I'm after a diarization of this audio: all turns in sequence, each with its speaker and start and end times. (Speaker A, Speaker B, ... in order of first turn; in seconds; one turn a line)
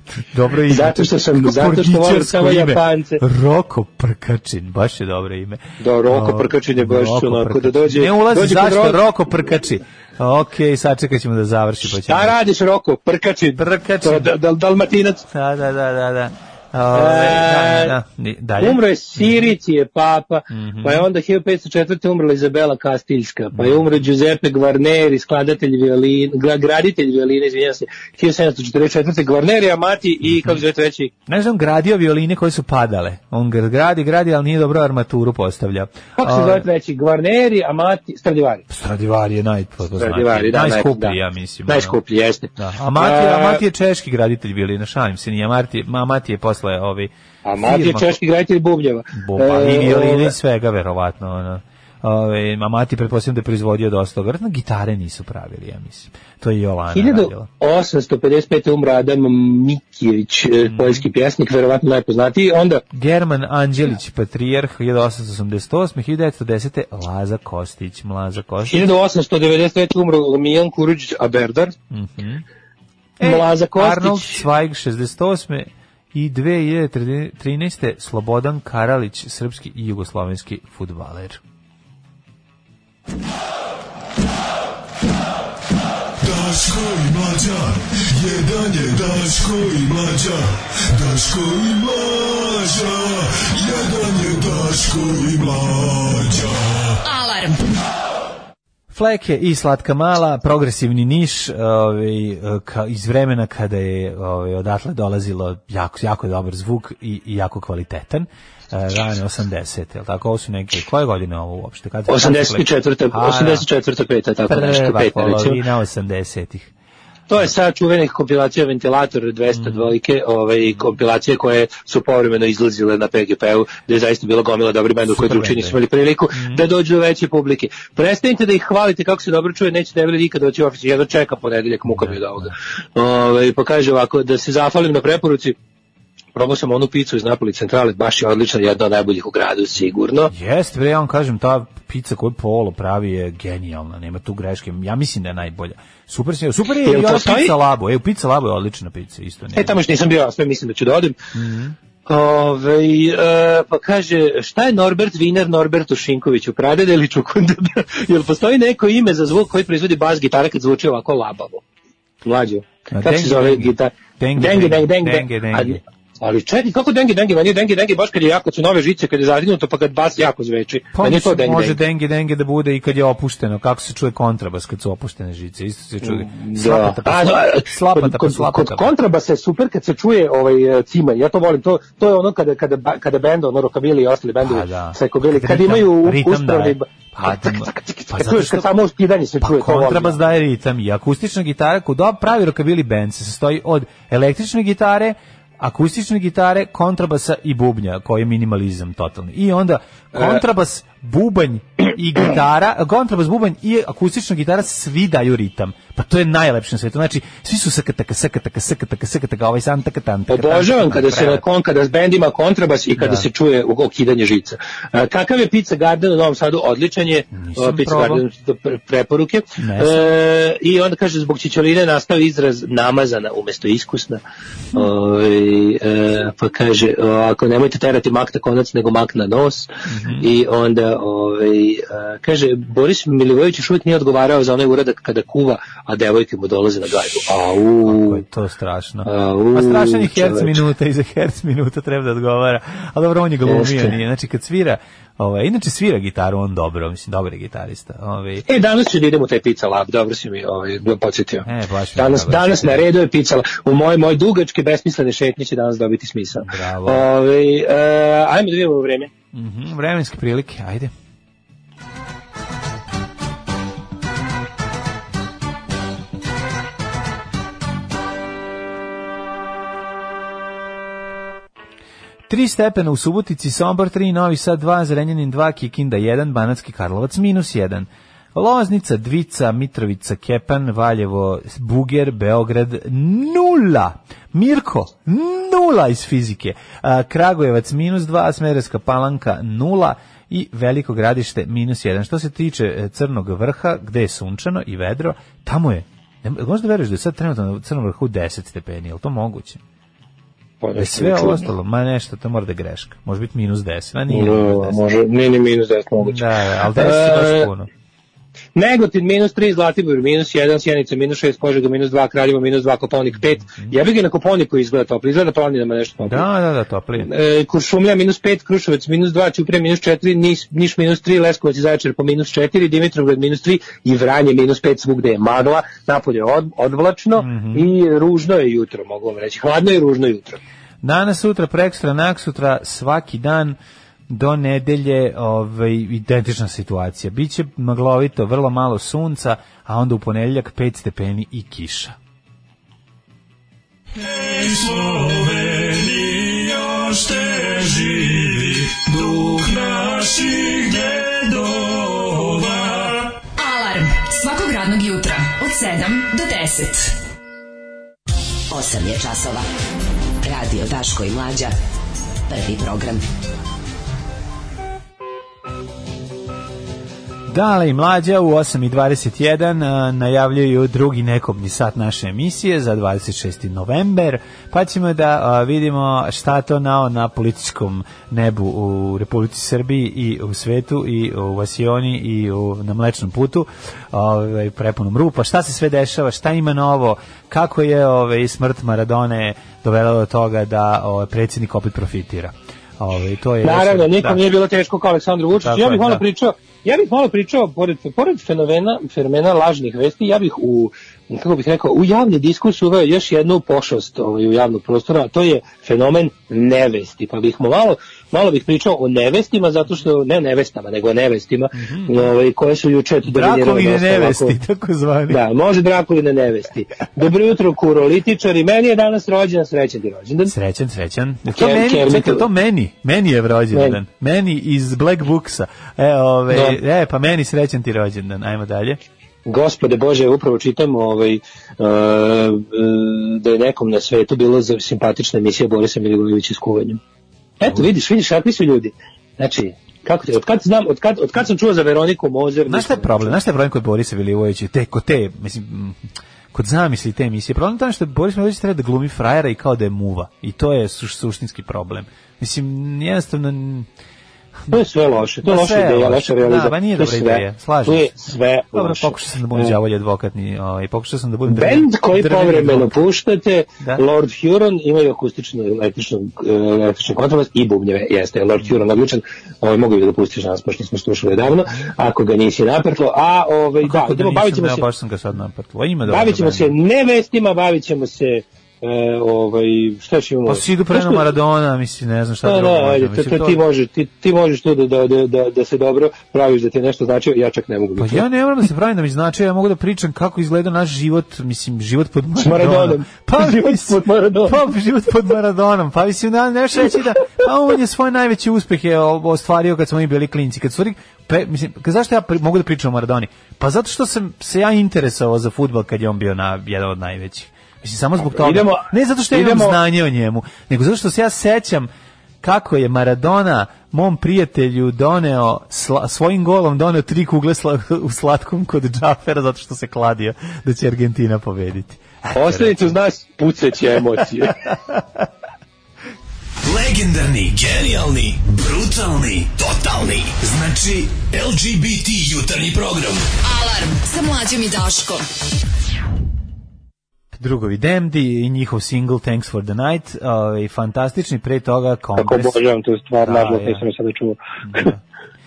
Speaker A: 0.1-12.4
Speaker B: 0.7-3.2
Speaker B: 5.8-9.0
Speaker B: 12.1-15.2
Speaker A: 13.6-14.3
Speaker A: 15.3-19.3
Speaker B: 16.9-17.9
Speaker B: 18.6-31.1
Speaker A: 20.5-21.1
Speaker A: 23.5-24.0
Speaker A: 30.2-30.6
Speaker A: 31.3-36.7
Speaker B: 36.2-38.6
Speaker A: 38.7-42.0
Speaker B: 40.0-43.6
Speaker A: 42.6-48.2
Speaker B: 47.5-50.3
Speaker A: 49.1-57.5
Speaker B: 56.9-62.8
Speaker A: 60.7-61.0
Speaker A: 62.9-68.9
Speaker B: 68.7-71.7
Speaker A: 71.9-72.4
Speaker A: 73.2-81.4
Speaker B: 73.2-74.4
Speaker C: 86.2-90.4
Speaker C: 91.0-96.4
Speaker A: 94.2-95.3
Speaker D: 97.0-97.6
Speaker A: 98.9-113.7
Speaker B: 112.1-115.6
Speaker A: 114.5-116.7
Speaker B: 117.3-135.6
Speaker A: 119.5-119.9
Speaker A: 125.1-125.8
Speaker A: 126.3-126.7
Speaker A: 131.9-132.4
Speaker B: 136.4-140.3
Speaker A: 140.3-149.8
Speaker B: 146.8-147.6
Speaker B: 149.6-151.2
Speaker A: 151.3-151.8
Speaker B: 152.1-161.6
Speaker B: 162.2-171.8
Speaker A: 162.9-165.8
Speaker A: 170.9-178.9
Speaker B: 176.0-190.3
Speaker A: 184.4-188.7
Speaker A: 189.4-211.4
Speaker B: 200.1-200.4
Speaker B: 210.3-224.2
Speaker A: 213.0-213.3
Speaker A: 217.3-218.2
Speaker A: 219.6-220.1
Speaker B: 224.8-238.2
Speaker A: 229.9-230.3
Speaker A: 237.8-248.4
Speaker B: 239.1-240.6
Speaker B: 243.5-243.9
Speaker B: 248.5-259.1
Speaker A: 251.4-252.9
Speaker A: 256.4-257.1
Speaker A: 259.3-260.9
Speaker A: 272.3-299.6
Speaker B: 300.6-301.5
Speaker A: 300.8-304.8
Speaker B: 304.1-307.5
Speaker A: 306.0-307.7
Speaker B: 308.6-316.3
Speaker A: 316.0-317.1
Speaker B: 317.0-330.4
Speaker A: 327.2-327.7
Speaker A: 330.8-333.6
Speaker A: 334.1-342.0
Speaker C: 344.3-352.7
Speaker D: 353.4-356.9
Speaker E: 358.5-359.4
Speaker E: 360.2-361.5
Speaker E: 362.3-363.0
Speaker A: 367.3-394.2
Speaker B: 393.4-414.4
Speaker A: 395.3-396.0
Speaker A: 411.6-412.1
Speaker A: 413.0-415.2
Speaker B: 415.1-420.3
Speaker A: 420.3-428.8
Speaker B: 421.3-422.3
Speaker B: 423.5-423.8
Speaker B: 426.3-426.6
Speaker B: 429.3-436.8
Speaker B: 437.4-443.2
Speaker A: 442.5-445.8
Speaker A: 446.3-453.7
Speaker B: 454.5-459.6
Speaker A: 455.2-462.8
Speaker B: 461.3-474.7
Speaker A: 473.6-476.5
Speaker B: 475.9-481.1
Speaker A: 480.3-483.4
Speaker B: 482.2-488.0
Speaker A: 487.8-511.7
Speaker B: 492.2-494.4
Speaker B: 508.1-509.6
Speaker A: 512.2-522.8
Speaker B: 522.1-524.4
Speaker A: 524.0-525.1
Speaker A: 526.5-533.1
Speaker D: 533.2-535.0
Speaker A: 537.1-542.4
Speaker B: 542.0-544.8
Speaker A: 543.0-543.7
Speaker A: 544.5-544.8